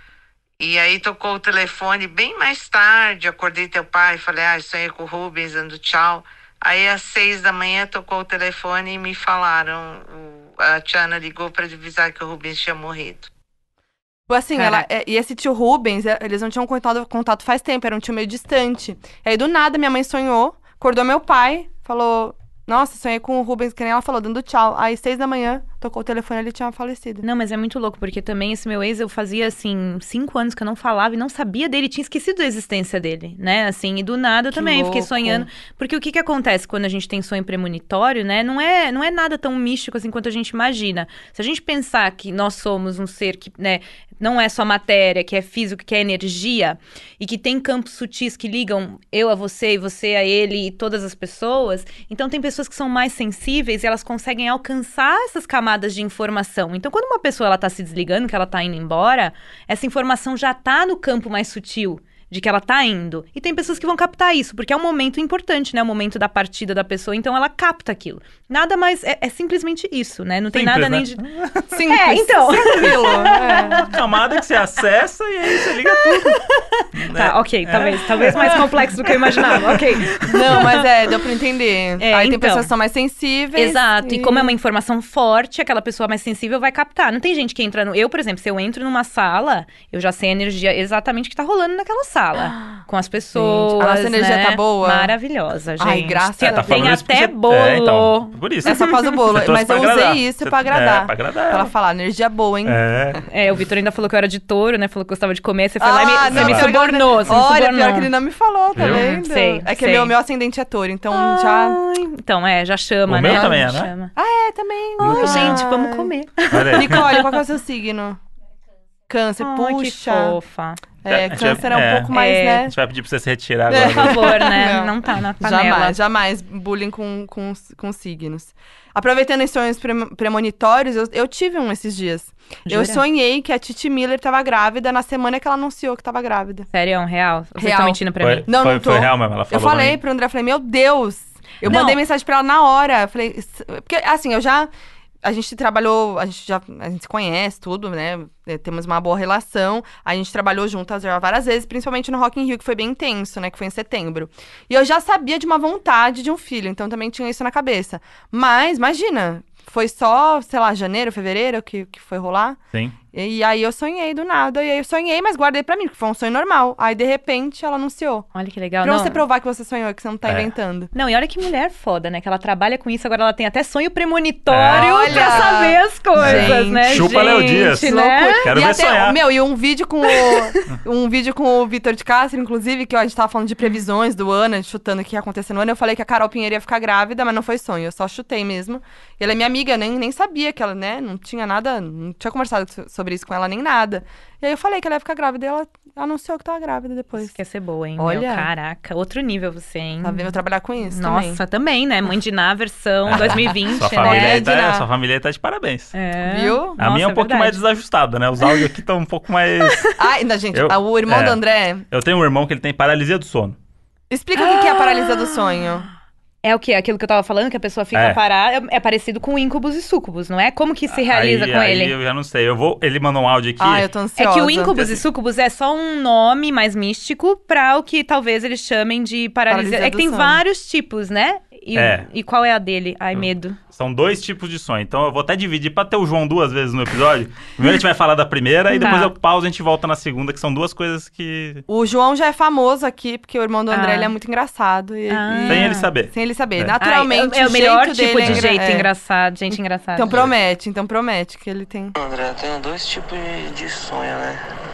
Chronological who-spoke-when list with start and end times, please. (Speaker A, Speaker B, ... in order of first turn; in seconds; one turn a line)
Speaker A: 0.6-13.3
Speaker B: 14.3-27.2
Speaker C: 14.6-14.8
Speaker C: 27.2-73.9
Speaker B: 34.5-35.5
Speaker D: 70.5-71.5
Speaker B: 71.7-73.9
Speaker D: 73.7-76.4
Speaker C: 75.8-80.9
Speaker D: 76.9-79.8
Speaker B: 80.3-84.5
Speaker C: 82.0-82.7
Speaker C: 83.5-99.2
Speaker B: 93.3-95.1
Speaker B: 95.8-97.0
Speaker D: 96.4-101.7
Speaker B: 98.7-103.2
Speaker D: 102.7-103.2
Speaker C: 103.3-108.1
Speaker B: 105.8-111.8
Speaker D: 106.3-106.7
Speaker D: 108.8-109.0
Speaker C: 108.8-110.1
Speaker C: 111.1-114.1
Speaker D: 113.1-113.9
Speaker B: 113.3-113.6
Speaker B: 114.2-116.1
Speaker D: 115.0-115.6
Speaker C: 115.0-117.3
Speaker D: 116.5-117.1
Speaker B: 116.7-118.2
Speaker B: 119.1-120.4
Speaker C: 119.4-120.8
Speaker B: 121.0-122.7
Speaker D: 121.1-124.4
Speaker C: 122.1-122.7
Speaker B: 123.7-136.7
Speaker C: 123.8-126.0
Speaker C: 132.7-133.0
Speaker C: 136.7-138.5
Speaker B: 137.6-144.7
Speaker D: 138.2-140.0
Speaker C: 141.6-142.0
Speaker B: 145.2-162.6
Speaker B: 163.1-168.3
Speaker C: 168.3-169.2
Speaker B: 168.8-170.9
Speaker D: 170.2-170.5
Speaker C: 170.9-178.5
Speaker D: 174.5-175.5
Speaker B: 174.7-197.3
Speaker D: 176.2-179.2
Speaker C: 180.2-180.6
Speaker C: 197.2-204.6
Speaker B: 198.0-198.5
Speaker B: 200.0-201.4
Speaker D: 203.1-205.9
Speaker B: 203.1-204.9
Speaker C: 205.9-207.6
Speaker B: 206.2-206.8
Speaker D: 206.8-209.9
Speaker B: 210.0-211.8
Speaker D: 210.5-213.6
Speaker B: 214.1-215.9
Speaker C: 214.3-215.6
Speaker C: 216.4-221.9
Speaker D: 217.9-218.2
Speaker D: 221.0-223.9
Speaker B: 223.6-224.9
Speaker C: 224.2-233.6
Speaker B: 229.5-230.4
Speaker D: 231.7-232.1
Speaker D: 233.1-241.6
Speaker C: 238.8-239.1
Speaker B: 241.7-248.9
Speaker C: 243.7-244.1
Speaker C: 245.1-245.9
Speaker D: 245.5-246.8
Speaker C: 246.8-250.2
Speaker D: 248.2-248.5
Speaker B: 249.9-251.9
Speaker E: 251.9-254.4